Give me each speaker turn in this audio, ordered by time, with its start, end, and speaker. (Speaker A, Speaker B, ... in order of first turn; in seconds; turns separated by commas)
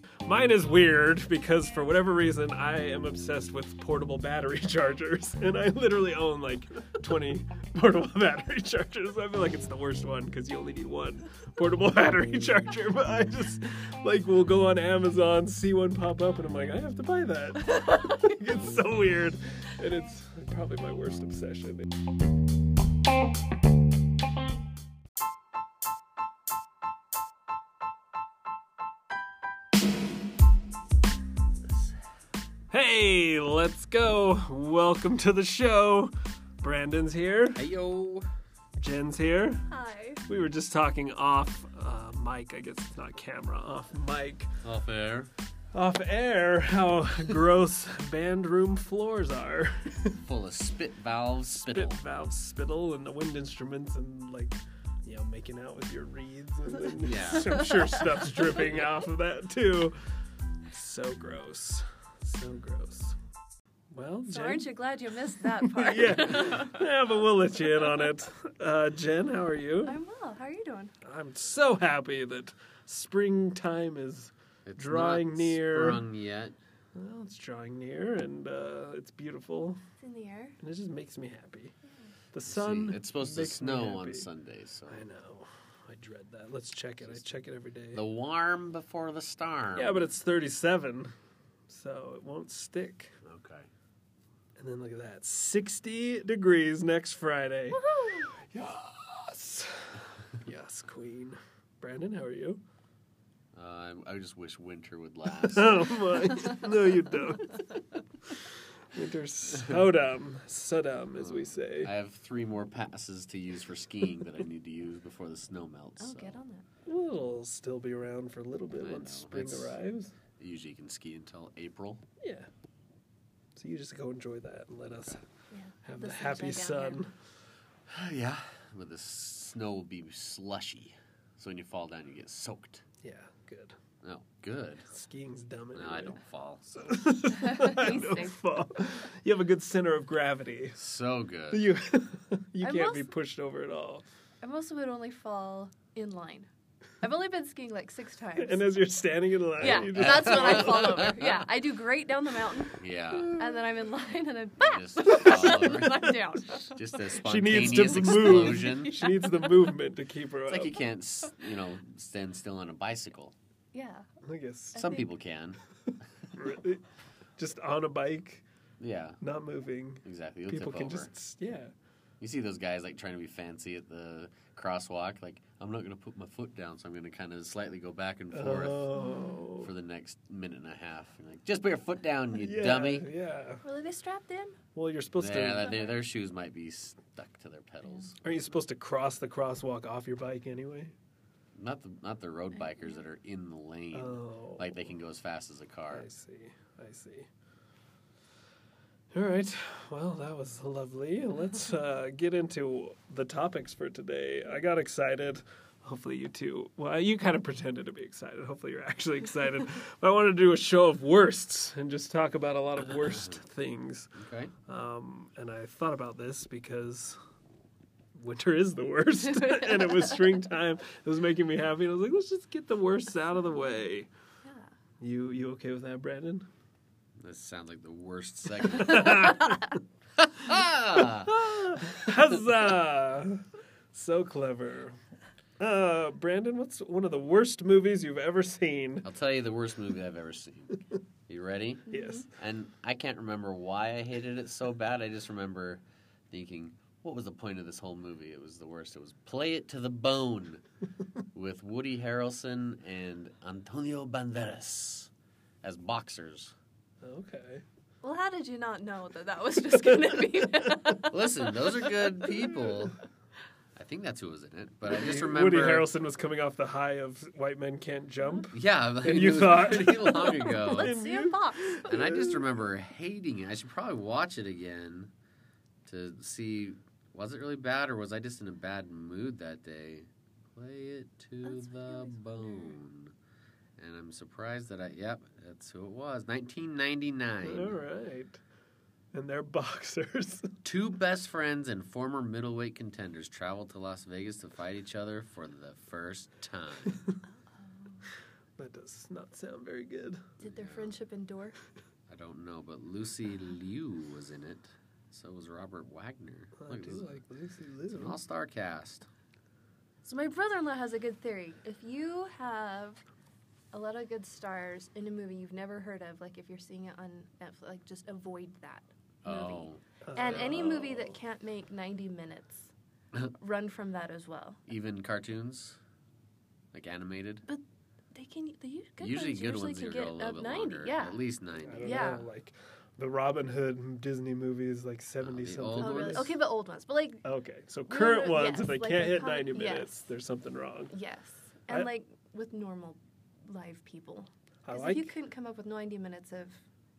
Speaker A: 0.2-21.9, Speaker B: 17.6-18.4, Speaker A: 32.7-37.6, Speaker C: 37.5-38.3, Speaker A: 38.8-39.7, Speaker B: 39.7-40.2, Speaker A: 40.3-44.5, Speaker C: 44.6-45.3, Speaker A: 45.7-50.2, Speaker C: 50.2-52.0, Speaker A: 51.7-60.0, Speaker C: 57.0-57.6, Speaker A: 60.7-63.2, Speaker A: 63.9-64.7, Speaker B: 64.3-66.8, Speaker A: 65.4-70.0, Speaker B: 69.8-70.9, Speaker A: 71.0-76.0, Speaker C: 74.7-76.6, Speaker A: 77.0-79.8, Speaker B: 80.0-80.6, Speaker A: 80.6-81.7, Speaker A: 82.3-84.3, Speaker C: 82.5-85.0, Speaker A: 84.9-88.0, Speaker C: 87.9-90.1, Speaker A: 89.8-91.1, Speaker A: 91.7-93.2, Speaker C: 93.2-93.7, Speaker A: 94.6-102.6, Speaker B: 97.7-98.3, Speaker C: 103.5-105.9, Speaker A: 105.4-111.9, Speaker C: 111.2-116.4, Speaker B: 116.0-116.6, Speaker A: 116.9-120.1, Speaker C: 118.8-119.8, Speaker C: 120.4-122.0, Speaker A: 122.2-122.5, Speaker A: 123.6-125.2, Speaker B: 125.5-127.0, Speaker A: 125.8-127.1, Speaker C: 127.9-132.8, Speaker A: 133.0-133.8, Speaker C: 134.0-134.9, Speaker A: 134.9-136.2, Speaker C: 135.8-137.0, Speaker A: 136.8-140.8, Speaker B: 137.3-138.4, Speaker C: 140.8-141.7, Speaker A: 141.5-144.1, Speaker B: 142.6-143.1, Speaker B: 144.4-146.5, Speaker B: 147.0-148.6, Speaker A: 148.4-151.1, Speaker C: 149.6-151.5, Speaker B: 149.6-152.8, Speaker C: 152.7-153.4, Speaker B: 153.4-156.9, Speaker C: 154.6-159.0, Speaker A: 155.1-155.5, Speaker A: 157.2-160.8, Speaker B: 158.2-159.7, Speaker C: 160.5-163.3, Speaker B: 163.7-164.1, Speaker A: 164.2-164.9, Speaker B: 164.8-165.1, Speaker C: 164.8-165.6, Speaker A: 166.3-166.8, Speaker A: 167.4-168.4, Speaker C: 168.8-169.2, Speaker A: 169.2-171.7, Speaker C: 170.1-171.1, Speaker C: 172.2-178.9, Speaker A: 178.3-179.7, Speaker B: 179.0-179.4, Speaker C: 179.6-183.1, Speaker A: 182.4-183.6, Speaker B: 183.6-184.6, Speaker A: 184.8-185.8, Speaker C: 185.2-188.3, Speaker B: 185.6-186.0, Speaker A: 188.2-190.9, Speaker C: 191.6-196.1, Speaker A: 193.9-194.8, Speaker A: 195.9-197.3, Speaker A: 199.1-217.2, Speaker C: 213.0-213.4, Speaker C: 214.2-214.5, Speaker A: 218.2-224.1, Speaker B: 224.4-224.7, Speaker A: 225.0-226.5, Speaker C: 227.2-229.4, Speaker A: 228.8-229.6, Speaker C: 230.2-232.2, Speaker A: 231.2-235.0, Speaker A: 235.6-239.1, Speaker C: 239.0-250.6, Speaker B: 241.9-242.2, Speaker A: 241.9-242.2, Speaker C: 251.3-255.1, Speaker C: 255.6-256.6, Speaker A: 257.0-257.6, Speaker B: 258.0-262.2, Speaker C: 261.0-263.0, Speaker C: 263.8-265.9, Speaker A: 264.9-272.5, Speaker C: 268.5-270.9, Speaker B: 270.1-271.9, Speaker C: 271.9-275.1, Speaker C: 275.9-283.1, Speaker B: 281.4-282.8, Speaker C: 283.8-287.8, Speaker A: 287.4-288.4, Speaker A: 289.1-290.6, Speaker C: 290.6-297.0, Speaker B: 297.6-298.1, Speaker A: 298.6-300.3, Speaker C: 300.4-301.0, Speaker B: 300.4-301.6, Speaker C: 302.1-307.2, Speaker A: 306.6-308.2, Speaker C: 307.9-309.1, Speaker B: 310.0-313.0, Speaker B: 313.7-322.7, Speaker C: 319.2-320.9, Speaker A: 320.0-321.1, Speaker B: 323.3-324.6, Speaker C: 324.7-325.8, Speaker C: 326.7-327.4, Speaker B: 328.1-331.2, Speaker C: 329.0-332.2, Speaker A: 331.6-336.4, Speaker B: 331.8-332.2, Speaker C: 335.2-336.3, Speaker B: 335.8-337.2, Speaker A: 337.2-340.9, Speaker B: 337.9-340.0, Speaker B: 340.9-346.6, Speaker A: 344.6-345.1